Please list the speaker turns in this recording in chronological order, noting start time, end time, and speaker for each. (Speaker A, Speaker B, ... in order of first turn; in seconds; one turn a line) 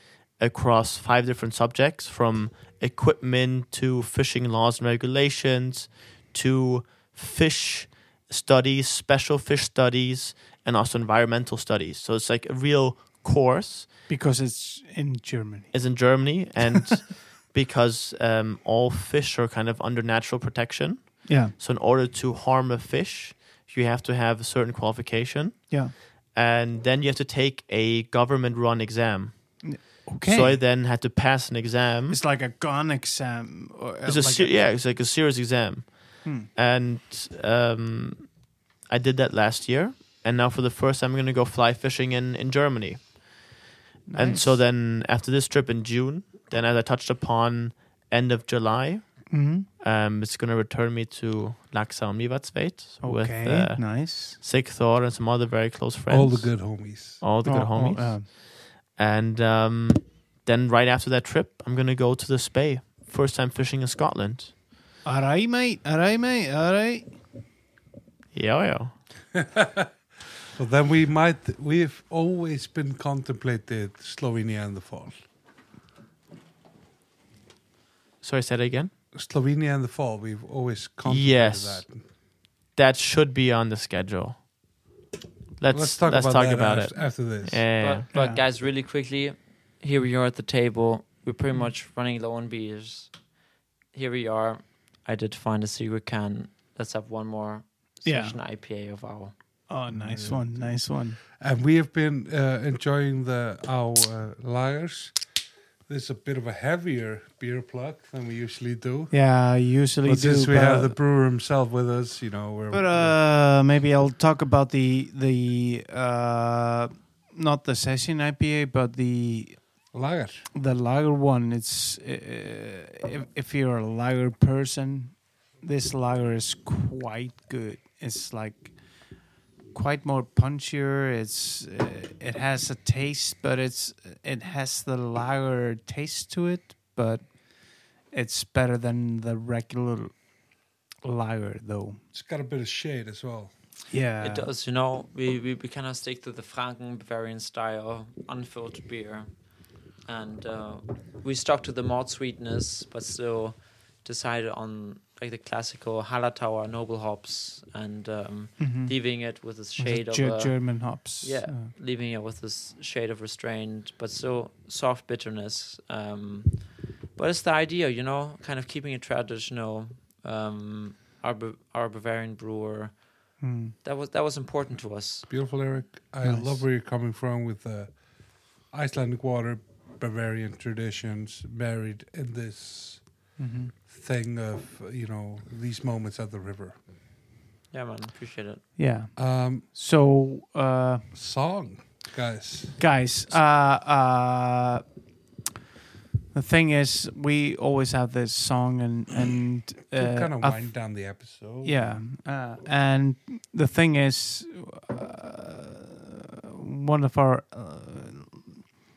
Speaker A: 0.4-13.9
Speaker B: 14.1-15.7
Speaker A: 15.7-32.2
Speaker B: 21.2-21.5
Speaker B: 29.6-30.6
Speaker B: 32.1-34.7
Speaker A: 34.0-38.3
Speaker A: 38.9-43.4
Speaker B: 44.1-44.6
Speaker A: 44.1-64.5
Speaker B: 49.3-49.7
Speaker B: 53.0-54.4
Speaker C: 56.1-57.2
Speaker B: 57.4-58.3
Speaker B: 65.0-67.1
Speaker A: 68.3-68.9
Speaker C: 69.3-69.9
Speaker C: 70.5-75.1
Speaker A: 78.2-78.9
Speaker C: 79.1-82.0
Speaker A: 81.0-81.8
Speaker A: 82.8-84.4
Speaker A: 85.6-88.0
Speaker C: 85.7-87.6
Speaker D: 87.8-93.1
Speaker B: 88.1-88.4
Speaker D: 93.9-99.3
Speaker B: 98.0-98.4
Speaker B: 99.7-101.2
Speaker C: 99.9-105.2
Speaker C: 105.9-113.2
Speaker B: 109.1-111.0
Speaker B: 112.7-119.8
Speaker C: 119.9-120.5
Speaker B: 120.5-129.1
Speaker B: 129.7-140.2
Speaker B: 141.0-142.0
Speaker C: 142.1-143.5
Speaker B: 143.9-144.5
Speaker D: 144.2-149.3
Speaker D: 150.1-166.6
Speaker B: 158.6-159.0
Speaker B: 159.8-161.7
Speaker D: 167.2-172.9
Speaker B: 173.4-173.7
Speaker D: 173.8-175.3
Speaker C: 175.3-177.9
Speaker B: 176.2-176.6
Speaker C: 178.7-183.0
Speaker B: 183.4-183.7
Speaker C: 183.9-186.8
Speaker D: 187.7-188.6
Speaker B: 188.8-191.1
Speaker C: 189.1-189.7
Speaker C: 191.1-192.8
Speaker B: 192.8-194.8
Speaker B: 196.3-200.9
Speaker C: 199.9-202.0
Speaker B: 201.6-208.6